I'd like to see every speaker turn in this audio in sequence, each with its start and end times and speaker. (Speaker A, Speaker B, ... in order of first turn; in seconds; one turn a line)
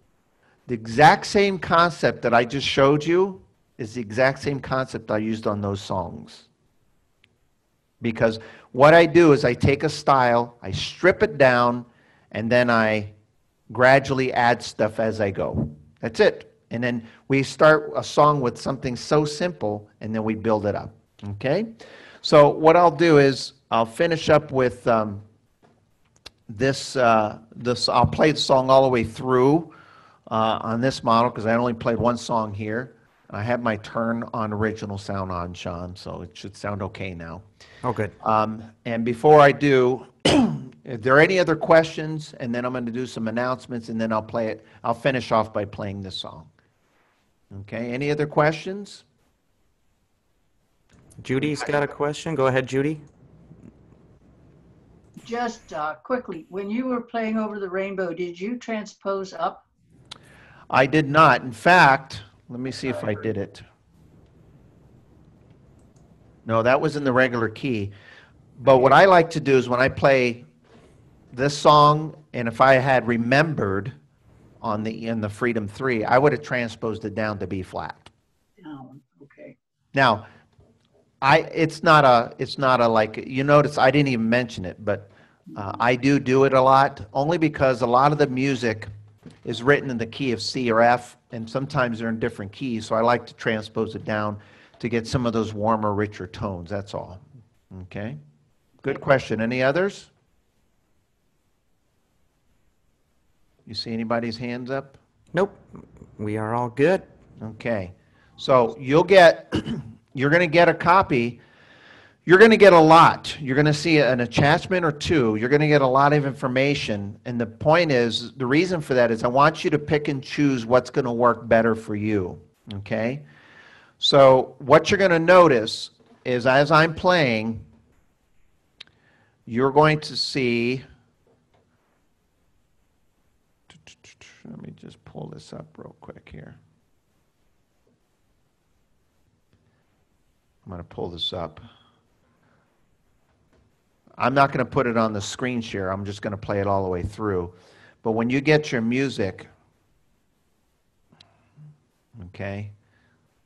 Speaker A: 0.7-6.5
Speaker A: 8.0-13.1
Speaker A: 13.7-21.7
Speaker A: 22.2-25.2
Speaker A: 26.5-29.7
Speaker A: 30.3-37.4
Speaker B: 37.8-38.1
Speaker A: 38.2-46.5
Speaker A: 47.5-49.0
Speaker B: 51.2-53.0
Speaker C: 55.2-59.6
Speaker A: 60.7-63.6
Speaker A: 66.5-67.9
Speaker A: 68.6-70.4
Speaker A: 71.3-73.9
Speaker A: 74.6-78.1
Speaker C: 78.6-79.5
Speaker A: 79.9-80.3
Speaker A: 81.2-88.9
Speaker A: 89.4-98.2
Speaker A: 98.8-100.1
Speaker A: 103.7-105.0
Speaker B: 105.3-105.6
Speaker B: 106.2-107.1
Speaker A: 107.4-111.4
Speaker A: 112.3-123.2
Speaker A: 124.0-127.6
Speaker A: 129.5-130.8
Speaker A: 133.9-136.6
Speaker A: 140.6-141.6
Speaker A: 144.2-149.5
Speaker A: 152.2-152.7